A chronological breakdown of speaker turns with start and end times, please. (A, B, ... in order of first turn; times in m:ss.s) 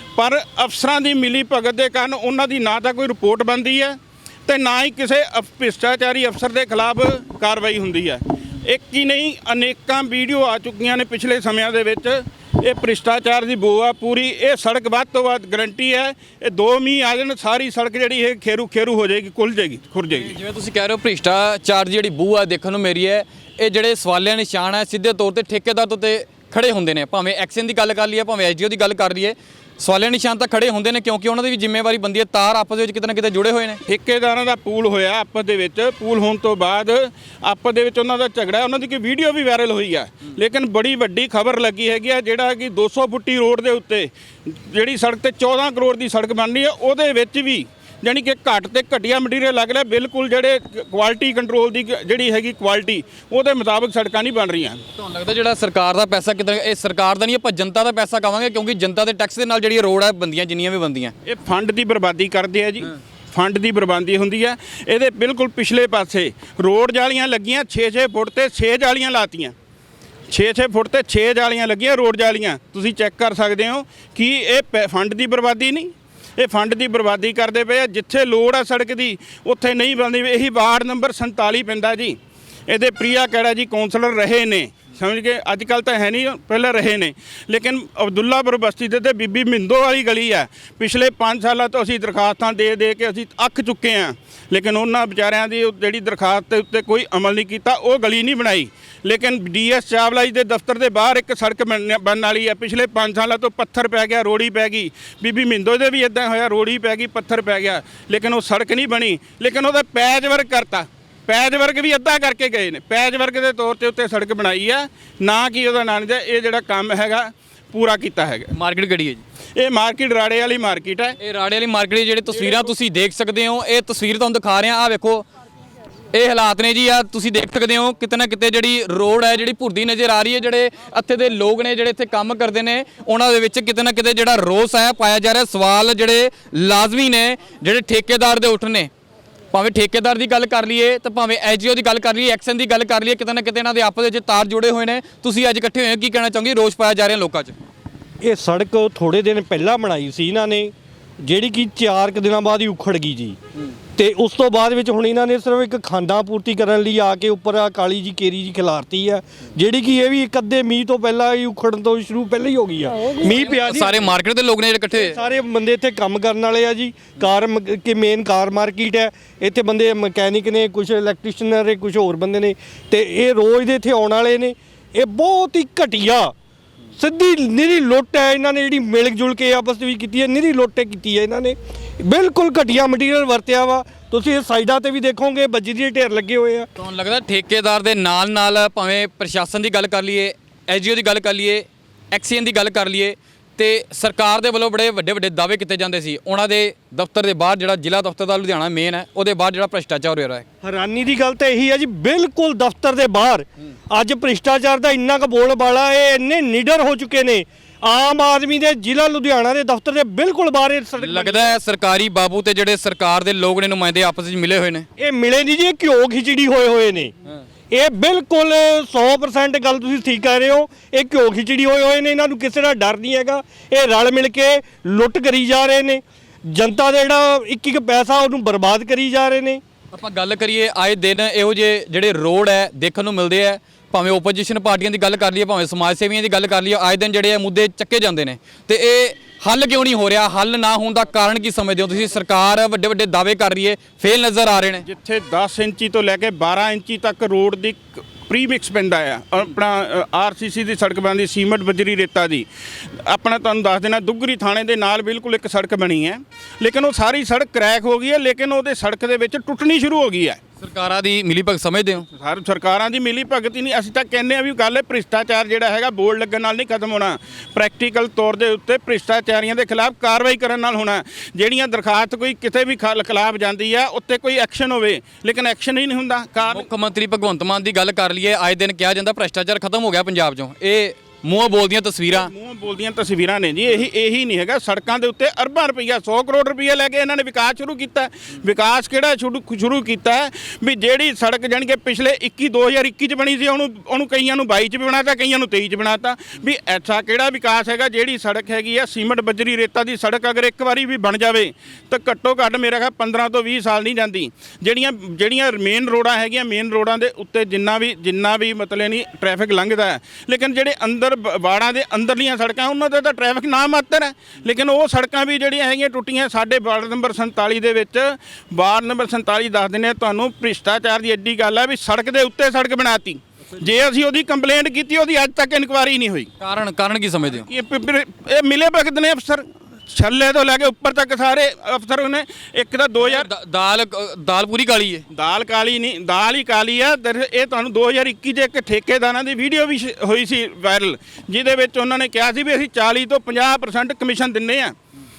0:00.2-0:20.3 A
0:20.1-0:33.8 B
0:33.9-0:54.8 A
0:55.0-1:01.1 B
1:01.2-1:09.5 A
1:10.3-1:58.5 A
1:58.5-1:59.2 B
1:59.6-2:01.2 A
2:01.2-2:05.2 B
2:06.1-2:18.9 B
2:19.5-2:27.5 B
2:28.2-2:33.4 C
2:33.9-2:44.1 C
2:43.2-2:45.2 B
2:45.0-2:56.3 C
2:57.0-3:06.7 C
3:06.8-3:20.4 B
3:20.6-3:31.6 C
3:31.0-3:34.8 B
3:35.0-3:37.1 C
3:37.7-3:49.6 C
3:49.9-4:04.8 B
4:04.8-4:12.5 A
4:13.0-4:20.4 A
4:20.6-4:22.1 B
4:22.1-4:36.7 A
4:36.4-4:42.3 B
4:42.1-5:26.3 A
5:26.4-5:27.4 B
5:27.4-5:33.3 A
5:33.0-5:35.0 B
5:35.1-5:44.7 A